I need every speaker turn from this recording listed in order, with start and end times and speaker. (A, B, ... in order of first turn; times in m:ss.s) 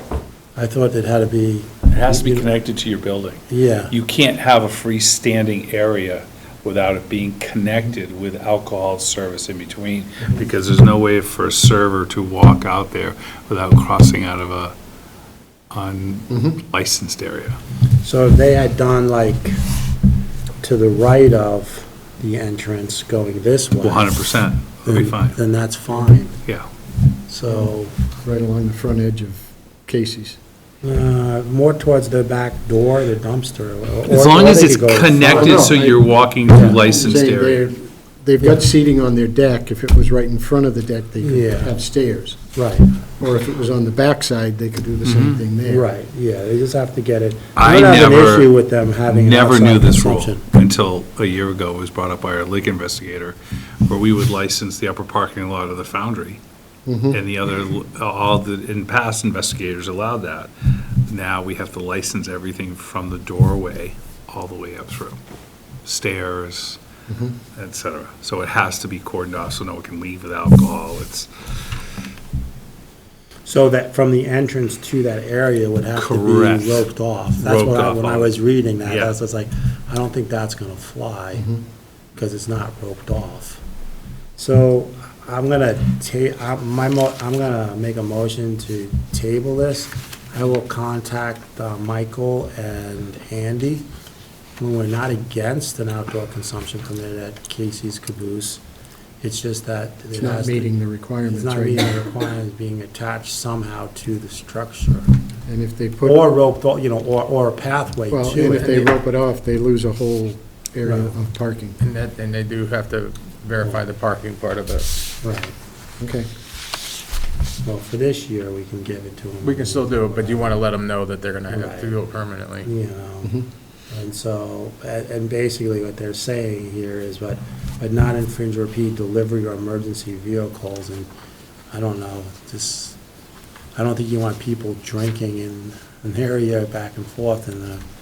0:00.6-0:02.5 A
0:01.9-0:14.8 B
0:03.5-0:03.9 A
0:15.7-0:17.6 B
0:18.0-0:19.6 A
0:20.6-0:26.4 A
0:23.8-0:25.4 B
0:27.3-0:27.9 A
0:27.5-0:30.4 C
0:30.8-0:35.8 A
0:34.1-0:37.7 B
0:35.3-0:36.1 C
0:36.5-0:36.8 A
0:36.6-0:42.4 C
0:41.2-0:41.7 A
0:42.6-0:43.0 A
0:43.2-0:45.8 C
0:45.1-0:45.4 B
0:45.6-0:50.4 A
0:47.6-0:48.5 B
0:49.1-0:56.4 B
0:56.9-0:57.2 C
0:57.1-1:00.5 B
1:01.1-1:05.2 B
1:05.8-1:06.8 B
1:07.1-1:07.4 C
1:07.6-1:11.8 B
1:13.4-1:21.5 A
1:16.0-1:19.1 B
1:22.2-1:23.6 A
1:24.4-1:33.9 A
1:34.6-1:38.6 A
1:39.2-1:40.7 A
1:40.2-1:42.0 C
1:41.3-1:45.1 A
1:45.5-1:46.4 C
1:46.0-1:48.9 A
1:48.1-1:51.8 C
1:48.4-1:48.8 D
1:51.8-1:55.0 D
1:55.2-1:55.6 A
1:56.0-1:56.3 C
1:57.6-2:00.6 A
1:59.4-2:02.7 D
2:01.5-2:02.0 A
2:02.6-2:03.4 A
2:03.9-2:11.1 A
2:11.7-2:13.0 A
2:13.8-2:17.8 A